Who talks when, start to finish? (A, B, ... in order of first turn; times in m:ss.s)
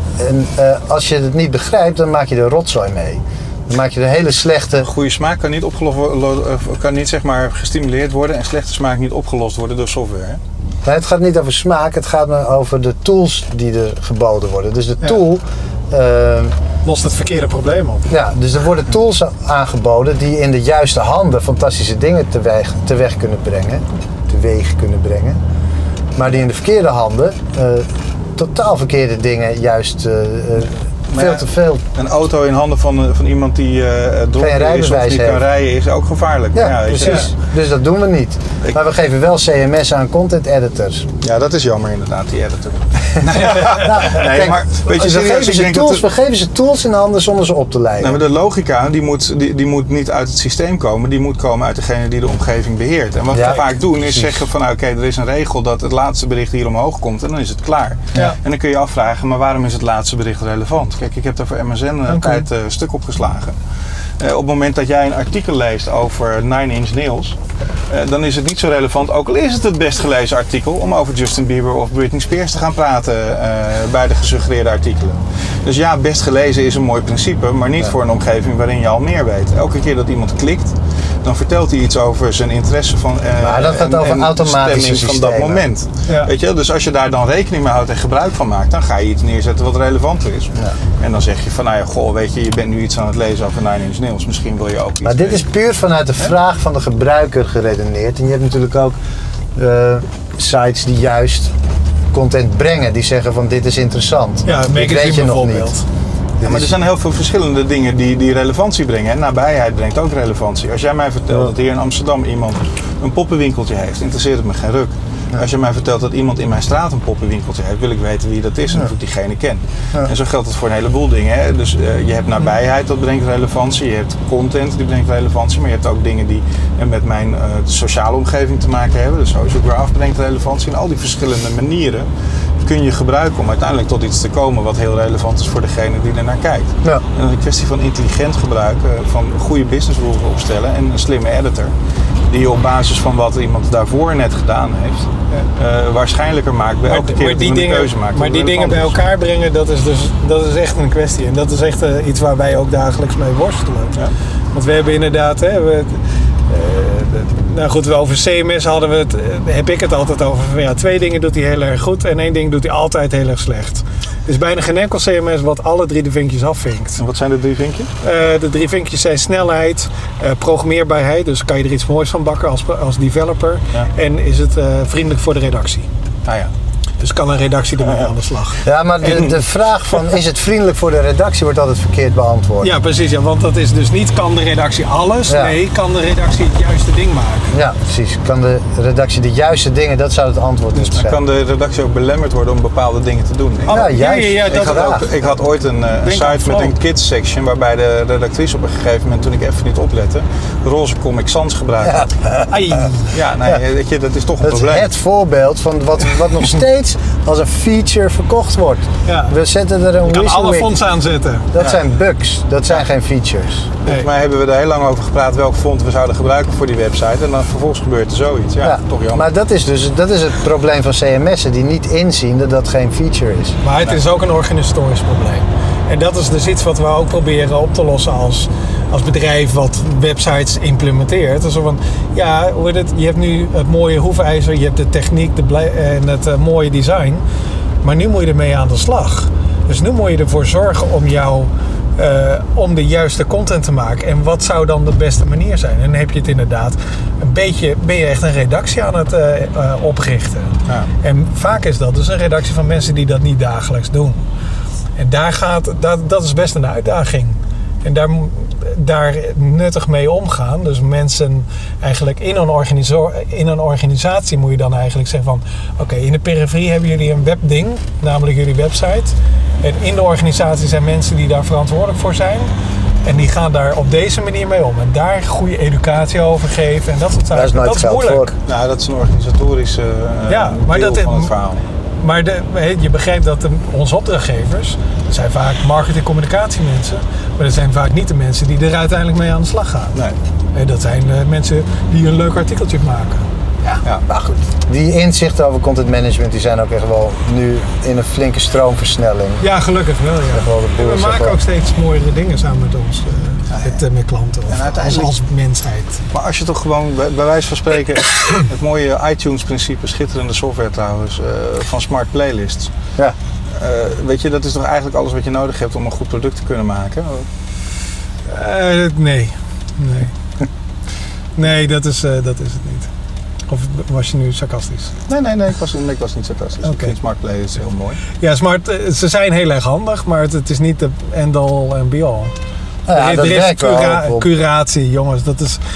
0:00.2-0:04.9 A
0:04.8-0:10.4 B
0:10.8-0:16.6 A
0:16.8-0:18.1 C
0:18.1-0:25.4 A
0:26.2-0:31.8 A
0:31.1-0:37.3 B
0:34.4-0:35.4 A
0:36.5-0:41.1 A
0:41.2-0:46.0 B
0:43.4-0:44.1 C
0:43.4-0:48.2 A
0:48.0-1:03.5 B
0:53.3-0:54.4 A
1:02.1-1:02.4 C
1:04.2-1:07.4 B
1:07.9-1:35.4 B
1:23.4-1:25.6 A
1:26.0-1:26.3 C
1:35.0-1:39.0 A
1:39.5-1:41.5 A
1:42.1-1:45.7 A
1:44.4-1:45.8 C
1:46.4-1:46.7 A
1:46.4-2:12.1 B
2:12.6-2:21.7 B
2:22.3-2:29.0 B
2:26.9-2:34.0 C
2:34.5-2:47.0 C
2:47.0-2:47.9 B
2:48.0-2:55.9 C
2:56.2-2:56.5 B
2:57.0-2:59.3 C
2:58.6-3:02.7 A
3:02.6-3:07.5 C
3:05.3-3:05.6 A
3:07.5-3:11.2 A
3:10.9-3:13.8 B
3:13.7-3:15.0 C
3:13.7-3:15.0 A
3:14.4-3:22.1 B
3:16.0-3:16.7 C
3:21.8-3:22.8 A
3:22.5-3:23.1 C
3:23.1-3:24.9 B
3:24.4-3:30.8 A
3:29.0-3:29.4 C
3:30.0-3:31.6 C
3:31.5-3:33.7 A
3:33.8-3:34.1 C
3:33.8-3:39.2 B
3:38.6-3:43.6 A
3:43.6-3:57.2 C
3:57.8-4:14.2 C
4:15.0-4:32.5 C
4:33.0-4:38.3 C
4:37.3-4:38.3 A
4:38.4-4:41.6 B
4:40.3-4:41.3 C
4:42.0-4:49.9 C
4:50.5-4:53.2 C
4:54.1-4:59.4 A
4:59.4-5:06.0 C
5:00.3-5:01.4 A
5:03.5-5:03.8 B
5:04.5-5:05.1 B
5:06.1-5:12.7 B
5:13.5-5:17.3 B
5:18.2-5:20.1 C
5:21.4-5:22.9 C
5:23.5-5:24.9 C
5:25.1-5:28.0 B
5:26.6-5:27.0 C
5:28.1-5:32.3 C
5:32.8-5:34.3 A
5:32.9-5:35.6 C